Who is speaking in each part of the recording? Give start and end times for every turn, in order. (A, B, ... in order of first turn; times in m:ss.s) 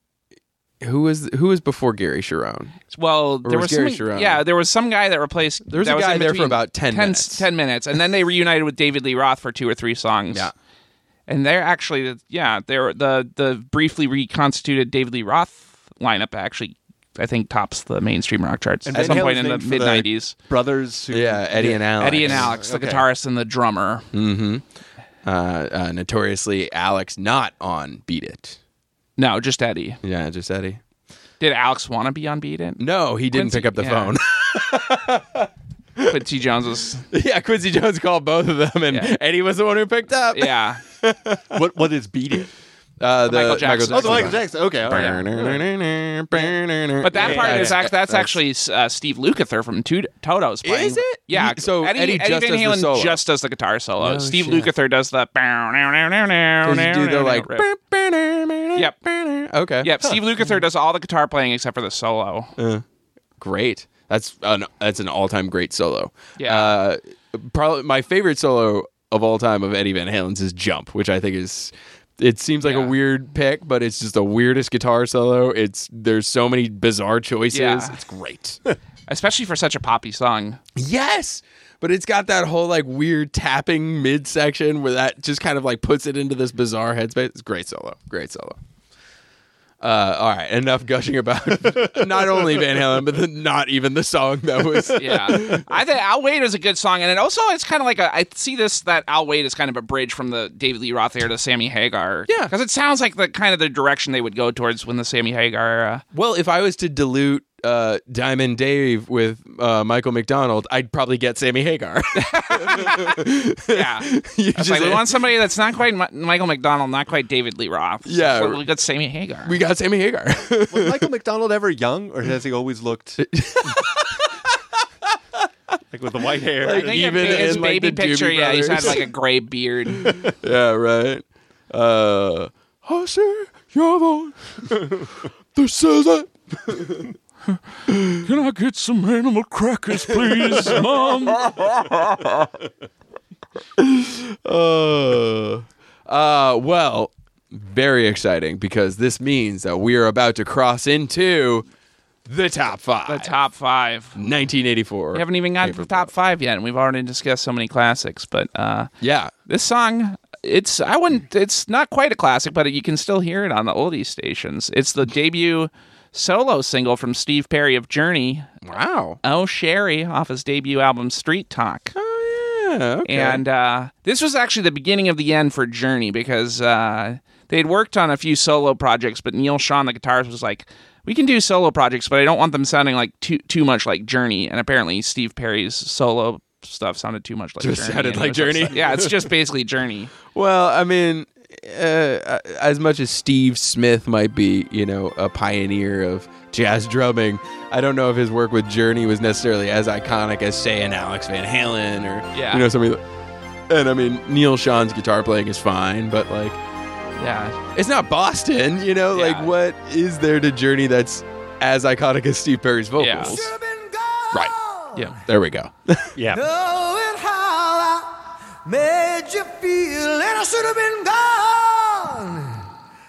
0:00.8-0:02.8 A
0:02.9-0:10.5 B
0:03.4-0:04.4 A
0:05.7-0:07.5 A
0:11.3-0:20.3 B
0:18.9-0:23.1 C
0:19.0-0:19.3 A
0:21.1-0:22.5 A
0:22.0-0:24.1 B
0:24.1-0:24.6 A
0:25.2-0:28.6 A
0:29.2-0:30.0 B
0:30.0-0:30.8 A
0:31.4-0:34.1 B
0:32.8-0:36.2 A
0:36.0-0:37.0 B
0:37.1-0:41.6 A
0:38.9-0:39.2 B
0:40.3-0:40.8 B
0:41.5-0:42.5 C
0:43.0-0:48.4 A
0:43.3-0:45.3 B
0:43.9-0:45.6 C
0:47.0-0:57.7 B
0:47.1-0:47.8 C
0:50.6-0:53.2 A
0:54.0-0:54.7 A
0:56.6-1:00.0 A
0:59.8-1:02.6 B
1:02.6-1:02.8 A
1:03.4-1:18.6 A
1:06.4-1:06.8 B
1:12.6-1:13.0 B
1:17.5-1:18.0 B
1:19.1-1:20.6 B
1:20.8-1:28.6 A
1:29.8-1:35.8 A
1:35.0-1:46.0 B
1:42.3-1:42.5 A
1:46.1-1:55.3 A
1:52.2-1:53.2 B
1:53.7-1:59.6 B
1:58.0-1:58.6 A
1:59.4-2:01.1 A
2:00.7-2:03.3 C
2:03.2-2:05.5 A
2:05.9-2:07.6 C
2:06.6-2:09.1 A
2:06.7-2:10.1 B
2:10.0-2:17.1 A
2:17.9-2:18.3 A
2:18.2-2:21.6 B
2:19.9-2:22.5 A
2:23.8-2:31.7 A
2:32.3-2:33.4 A
2:33.1-2:34.2 B
2:34.2-2:36.1 A
2:35.1-2:38.9 B
2:39.0-2:39.3 A
2:39.5-2:48.5 B
2:48.6-2:49.2 A
2:49.2-2:51.9 B
2:52.0-2:53.4 A
2:53.0-3:10.1 B
3:07.6-3:09.2 A
3:10.3-3:23.0 A
3:22.3-3:22.6 B
3:23.7-3:26.6 A
3:27.2-3:27.6 B
3:27.7-3:33.5 A
3:29.1-3:29.5 B
3:33.0-3:33.4 B
3:33.2-3:35.1 D
3:35.2-3:36.2 A
3:36.2-3:36.4 C
3:36.3-3:42.7 D